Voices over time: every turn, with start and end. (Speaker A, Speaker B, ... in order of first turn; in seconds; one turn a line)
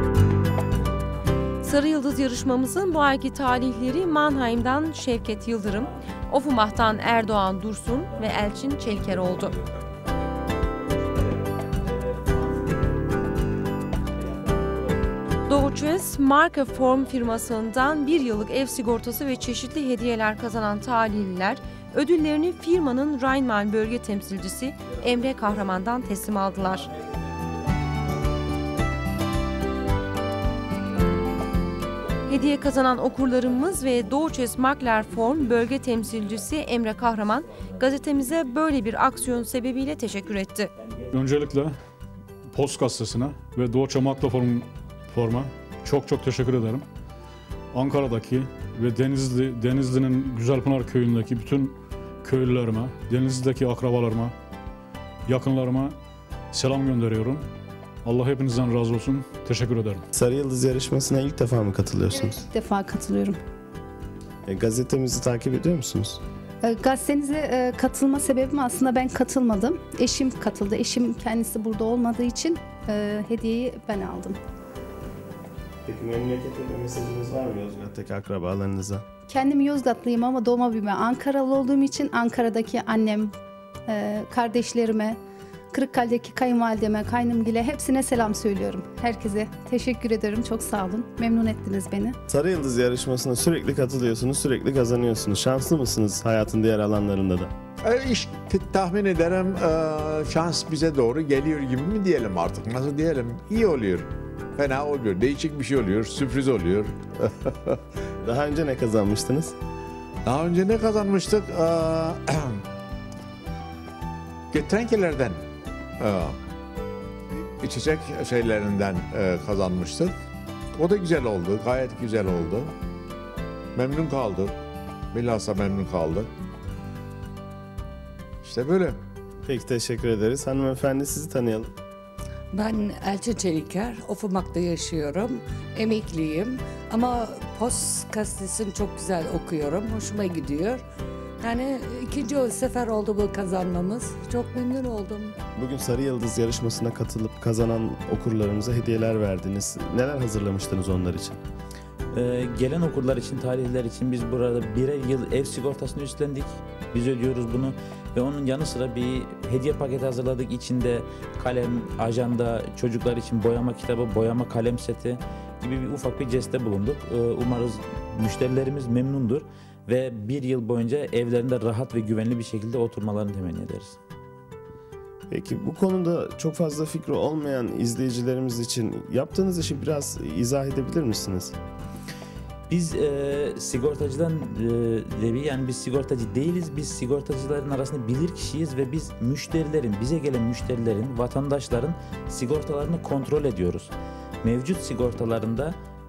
Speaker A: 1.6-9.5
Speaker B: 9.1-9.8
Speaker B: 11.9-12.9
Speaker B: 14.3-14.8
Speaker A: 15.5-26.9
Speaker A: 32.3-40.7
Speaker C: 41.1-41.8
Speaker C: 42.5-46.9
Speaker C: 47.7-54.4
Speaker C: 55.3-56.0
Speaker C: 56.5-57.5
Speaker C: 58.0-60.0
Speaker D: 60.1-62.4
Speaker E: 62.1-63.4
Speaker D: 64.5-66.2
Speaker E: 66.6-74.4
Speaker D: 75.8-79.0
Speaker E: 79.3-83.3
Speaker E: 83.9-85.2
Speaker E: 85.7-92.2
Speaker D: 92.3-97.5
Speaker F: 97.8-107.8
Speaker D: 108.2-109.5
Speaker F: 110.2-112.6
Speaker F: 114.5-115.4
Speaker F: 116.0-116.4
Speaker F: 117.6-120.1
Speaker F: 120.7-122.7
Speaker F: 123.7-124.6
Speaker F: 125.1-126.3
Speaker F: 128.4-129.0
Speaker D: 129.5-131.7
Speaker G: 132.5-140.8
Speaker G: 141.4-145.3
Speaker D: 145.6-151.4
Speaker B: 152.1-174.0
Speaker D: 175.3-181.6
Speaker B: 182.7-195.8